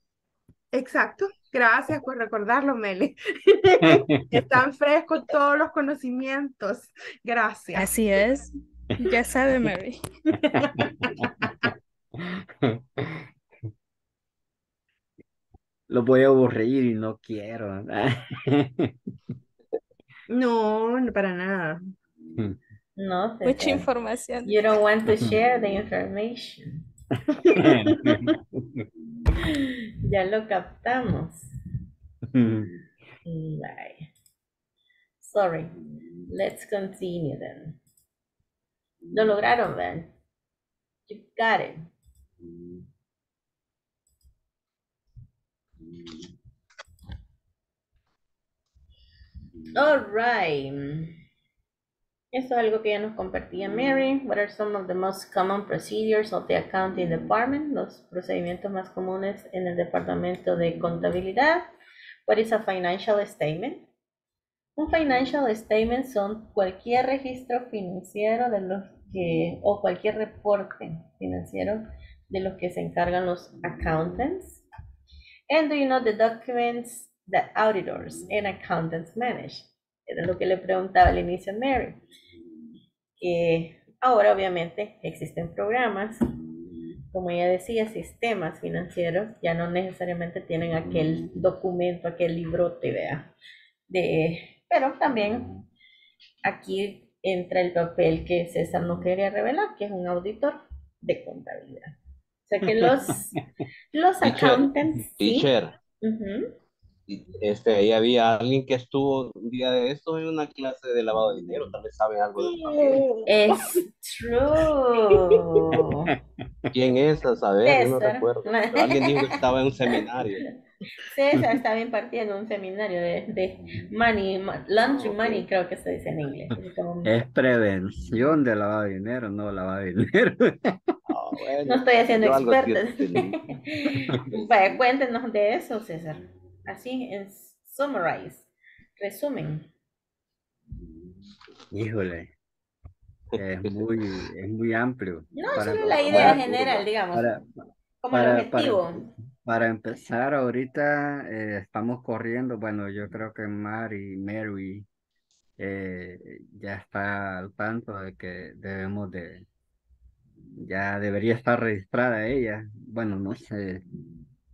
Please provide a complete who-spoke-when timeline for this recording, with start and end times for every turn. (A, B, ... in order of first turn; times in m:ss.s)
0:00.7-0:07.9 A
0:03.9-0:04.2 B
0:07.7-0:10.0 C
0:10.6-0:11.7 A
0:12.2-0:13.2 B
0:15.9-0:19.0 B
0:20.3-0:21.8 A
0:23.0-0:23.8 D
0:23.4-0:24.7 C
0:24.5-0:26.8 D
0:27.6-0:28.9 B
0:27.6-0:28.2 A
0:29.4-0:31.5 D
0:32.3-0:32.7 B
0:33.3-0:34.1 D
0:35.2-0:35.7 D
0:36.3-0:37.8 D
0:39.1-0:40.1 D
0:41.1-0:41.9 D
0:49.7-0:51.2 D
0:52.3-1:01.7 D
1:02.3-1:03.9 D
1:04.8-1:14.6 D
1:15.5-1:22.0 D
1:23.2-1:26.2 D
1:27.1-1:33.3 D
1:33.9-1:35.5 D
1:36.4-1:42.0 D
1:42.5-1:43.4 D
1:43.9-1:45.5 D
1:44.2-1:44.6 E
1:45.2-1:45.8 E
1:46.0-1:46.5 D
1:47.1-1:53.0 E
1:52.4-1:53.2 A
1:53.3-1:56.1 D
1:56.7-2:00.4 E
1:57.6-1:59.4 D
2:01.0-2:07.1 D
2:04.8-2:05.4 E
2:07.0-2:10.8 B
2:11.1-2:13.5 E
2:11.7-2:19.7 D
2:21.7-2:22.3 B
2:23.3-2:23.8 E
2:23.4-2:26.5 B
2:25.4-2:27.3 D
2:25.4-2:26.9 E
2:27.1-2:27.4 B
2:28.0-2:29.1 D
2:28.1-2:34.9 B
2:35.6-2:39.4 B
2:40.6-2:43.8 B